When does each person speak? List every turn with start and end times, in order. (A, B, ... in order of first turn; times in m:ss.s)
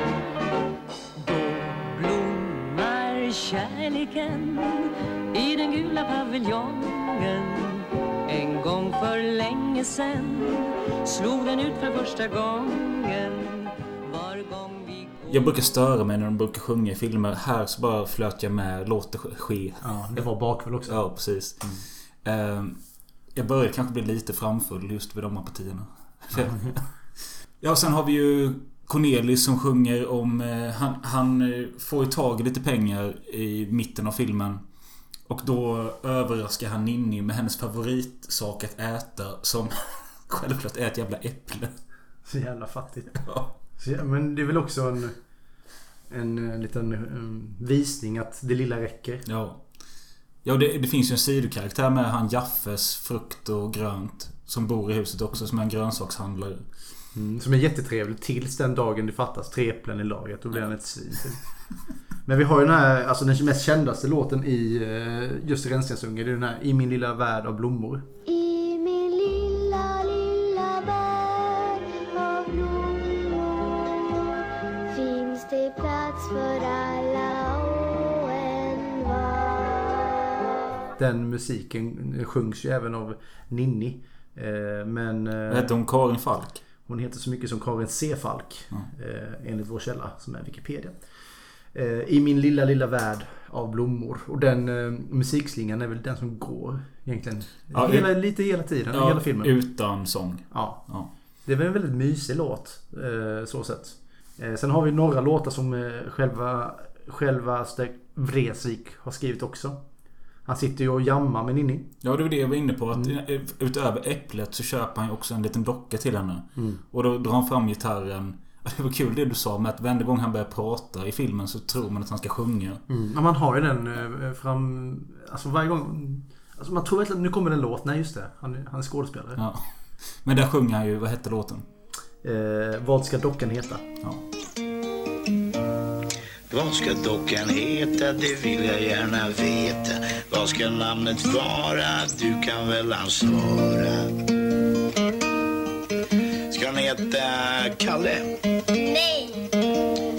0:01.2-0:15.4 A
0:15.3-0:20.2 B
0:19.8-0:21.0 C
0:20.9-0:22.8 B
0:23.3-0:26.8 B
0:27.6-0:34.6 B
0:35.3-0:39.7 B
0:40.3-0:41.7 B
0:42.3-0:43.2 C
0:43.2-0:43.5 B
0:43.8-0:45.2 C
0:46.1-0:49.2 C
0:49.3-0:49.6 B
0:50.4-0:56.6 B
0:57.1-1:01.4 C
1:02.3-1:08.0 C
1:08.3-1:13.6 D
1:14.9-1:20.1 D
1:21.0-1:25.7 C
1:25.5-1:26.6 B
1:26.9-1:31.0 C
1:31.7-1:39.5 C
1:37.7-1:38.1 B
1:38.9-1:41.1 B
1:40.5-1:40.8 C
1:41.5-1:49.8 C
1:50.5-1:51.9 C
1:52.0-2:02.8 B
1:56.6-1:56.8 C
2:02.9-2:09.4 C
2:09.4-2:09.7 B
2:10.2-2:11.7 B
2:12.2-2:13.8 C
2:16.5-2:24.1 E
2:26.5-2:28.3 E